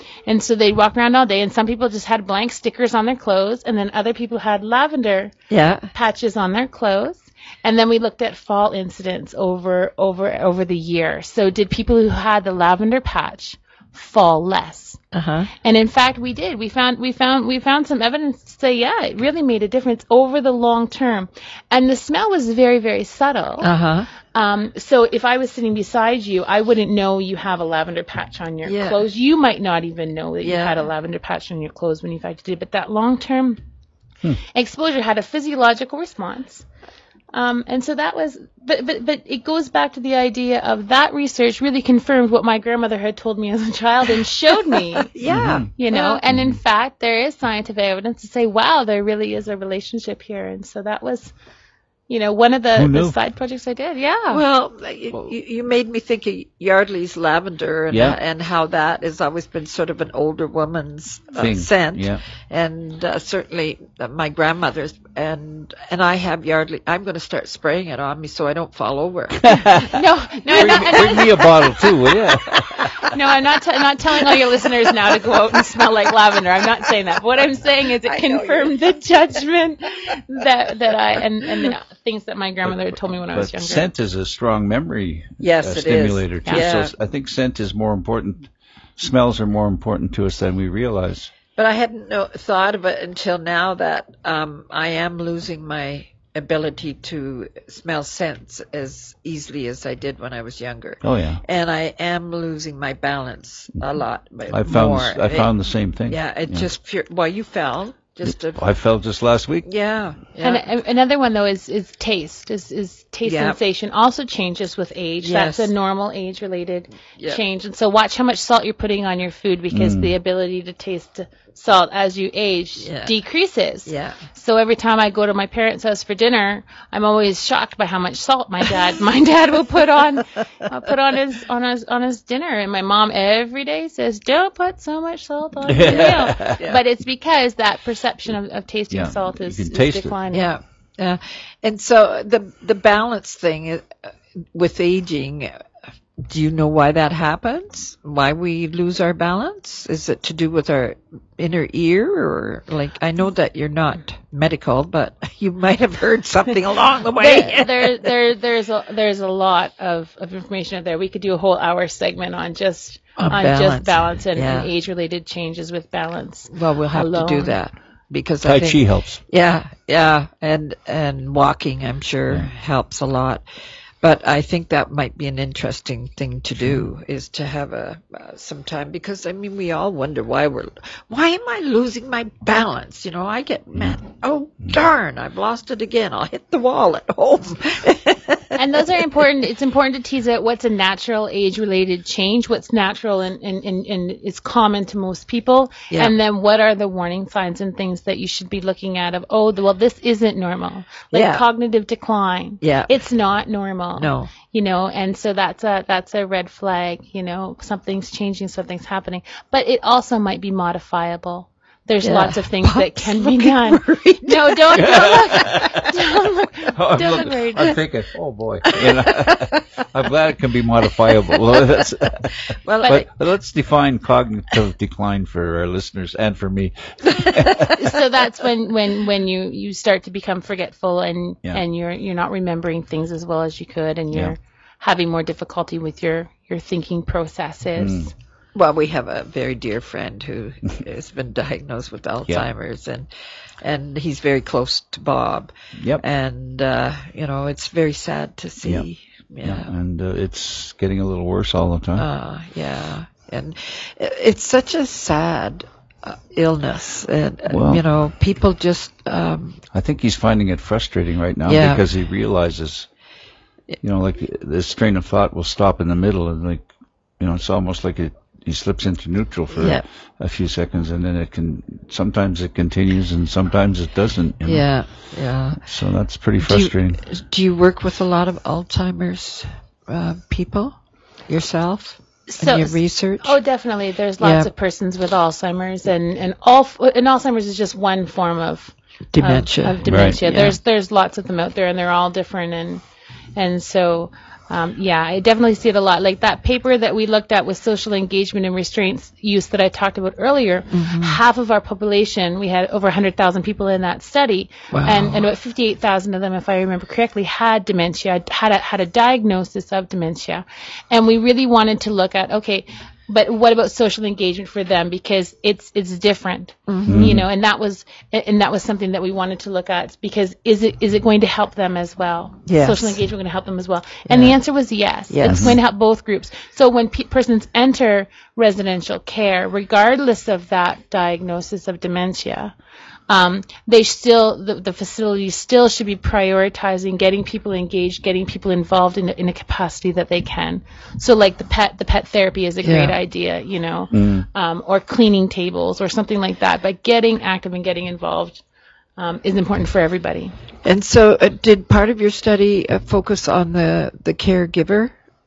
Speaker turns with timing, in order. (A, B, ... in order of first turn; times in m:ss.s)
0:00.3-0:05.3 A
0:05.5-0:05.9 B
0:05.9-0:15.0 A
0:15.1-0:15.5 B
0:15.6-0:23.7 A
0:23.6-0:24.1 B
0:24.3-0:33.6 A
0:28.6-0:29.0 B
0:30.4-0:30.8 B
0:34.6-0:36.6 A
0:37.3-0:45.1 A
0:45.0-0:46.2 B
0:45.3-0:45.7 C
0:45.8-0:51.3 A
0:46.3-0:46.6 C
0:52.1-0:54.4 A
0:52.8-0:53.2 C
0:54.3-1:09.9 B
0:57.9-0:58.2 C
1:01.4-1:02.2 C
1:09.4-1:09.9 C
1:09.9-1:11.5 A
1:10.5-1:12.9 C
1:10.5-1:11.4 B
1:12.3-1:12.9 B
1:13.1-1:23.9 A
1:15.2-1:15.4 B
1:18.0-1:18.9 B
1:22.6-1:31.3 C
1:25.4-1:26.9 B
1:31.6-1:45.6 B
1:41.0-1:41.4 C
1:44.5-1:46.7 C
1:46.1-1:48.6 B
1:48.3-1:49.7 C
1:49.6-1:50.7 B
1:50.4-2:20.5 A
1:53.2-1:53.6 B
1:55.2-1:55.7 B
1:57.2-1:57.4 B
1:59.7-2:00.1 C
2:02.8-2:03.1 B
2:03.9-2:04.2 B
2:15.7-2:16.6 C
2:15.8-2:16.8 B
2:18.9-2:20.2 C
2:20.3-2:24.0 B
2:24.5-2:25.5 B
2:26.3-2:38.1 B
2:37.2-2:47.6 A
2:43.2-2:44.7 B
2:46.5-2:53.4 B
2:48.4-2:49.2 C
2:54.0-3:08.8 B
2:56.6-2:56.9 C
3:08.6-3:37.8 A
3:21.1-3:21.4 B
3:22.6-3:23.0 B
3:24.0-3:24.3 B
3:32.0-3:35.2 B
3:34.7-3:35.8 C
3:36.7-3:47.8 C
3:38.7-3:39.6 B
3:41.3-3:41.8 B
3:42.7-3:43.0 B
3:47.1-3:47.8 B
3:47.8-3:58.1 A
3:54.1-3:54.4 C
3:57.8-3:58.1 C
3:58.6-4:03.1 B
4:03.6-4:09.7 B
4:05.8-4:06.0 C
4:09.4-4:12.1 C
4:12.0-4:19.6 B
4:17.5-4:17.8 C
4:19.7-4:22.9 C
4:21.5-4:21.8 B
4:23.8-4:26.7 C
4:27.2-4:34.7 C
4:29.6-4:29.8 B
4:34.4-4:35.6 B
4:35.6-4:37.0 C
4:36.4-4:40.8 B
4:41.3-4:43.4 B
4:42.3-4:52.8 A
4:44.2-4:44.5 B
4:49.1-4:50.6 B
4:49.8-4:50.2 C
4:53.4-5:32.5 A
5:00.7-5:01.2 B
5:04.7-5:05.3 B
5:16.7-5:17.2 B
5:16.9-5:17.2 C
5:22.5-5:23.0 B
5:24.1-5:24.4 B
5:25.1-5:25.6 B
5:25.2-5:25.6 C
5:33.1-5:48.4 A
5:42.6-5:43.0 B
5:43.9-5:44.3 C
5:49.0-5:50.3 A
5:50.6-5:54.9 B